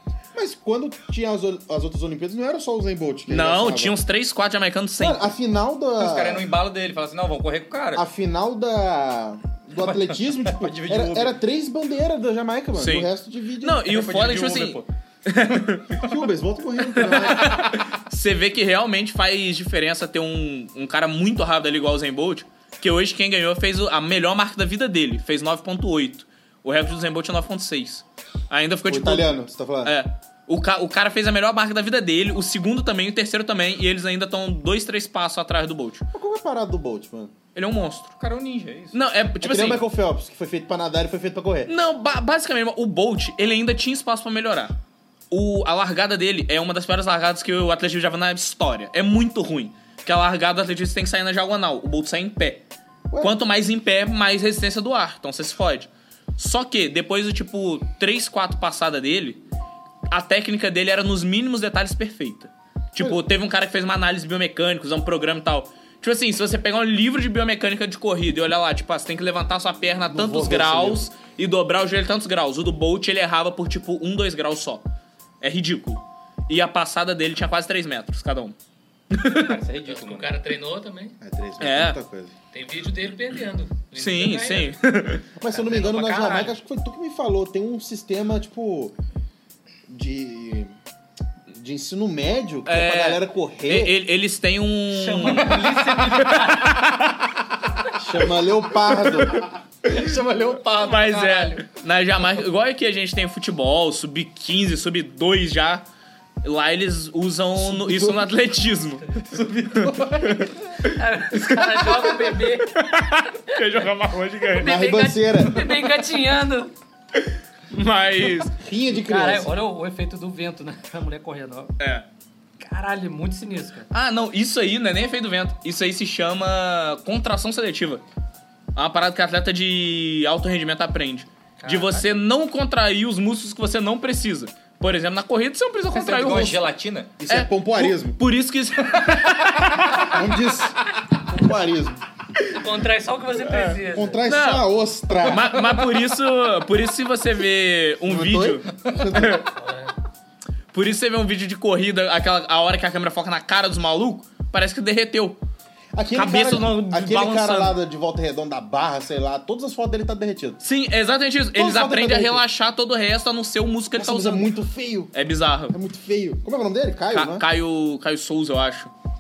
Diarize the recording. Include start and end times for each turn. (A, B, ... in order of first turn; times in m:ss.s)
0:00.3-0:04.0 A
0:03.3-0:05.3 B
0:05.0-0:06.4 A
0:06.0-0:08.0 C
0:08.0-0:13.9 A
0:09.8-0:11.4 C
0:12.7-0:13.1 B
0:13.6-0:16.1 B
0:13.9-0:14.9 C
0:16.0-0:17.6 A
0:16.9-0:36.0 B
0:28.9-0:30.0 A
0:36.1-0:37.3 A
0:37.6-0:38.1 B
0:38.2-0:39.0 C
0:38.9-0:39.8 B
0:39.4-0:41.7 A
0:41.7-0:44.8 B
0:45.3-0:52.6 B
0:53.2-0:59.4 B
1:00.1-1:14.9 B
1:10.1-1:11.1 A
1:15.4-1:18.6 B
1:19.1-1:19.6 B
1:19.3-1:20.3 C
1:19.8-1:21.2 D
1:21.2-1:22.3 A
1:21.6-1:22.0 B
1:22.5-1:24.8 D
1:24.0-1:25.2 B
1:25.4-1:29.0 A
1:25.5-1:26.6 D
1:29.9-1:30.8 A
1:31.5-1:34.0 A
1:32.7-1:36.7 B
1:34.9-1:36.9 D
1:35.2-1:36.8 C
1:38.0-1:39.4 A
1:39.1-1:41.6 C
1:40.8-1:45.9 B
1:46.4-1:49.2 B
1:47.6-1:48.3 A
1:49.2-1:50.8 C
1:49.8-1:50.5 B
1:50.8-1:52.9 D
1:51.3-1:54.8 B
1:54.5-1:56.7 D
1:54.6-1:55.7 A
1:57.2-1:58.5 B
1:58.6-1:59.5 A
1:58.9-2:01.7 D
2:01.8-2:02.1 B
2:02.6-2:03.9 D
2:03.9-2:08.0 B
2:08.8-2:16.7 B
2:11.6-2:12.1 D
2:15.9-2:17.1 C
2:17.2-2:18.2 A
2:17.3-2:20.3 B
2:20.0-2:22.0 A
2:22.5-2:24.2 D
2:23.4-2:24.7 B
2:23.9-2:25.5 A
2:25.2-2:29.5 B
2:28.0-2:29.5 A
2:29.5-2:29.9 D
2:30.7-2:35.4 B
2:36.0-2:40.6 A
2:36.1-2:37.8 B
2:40.6-2:44.5 B
2:41.6-2:42.4 A
2:44.0-2:45.1 A
2:45.1-2:45.8 B
2:45.7-2:47.5 A
2:47.1-2:48.9 B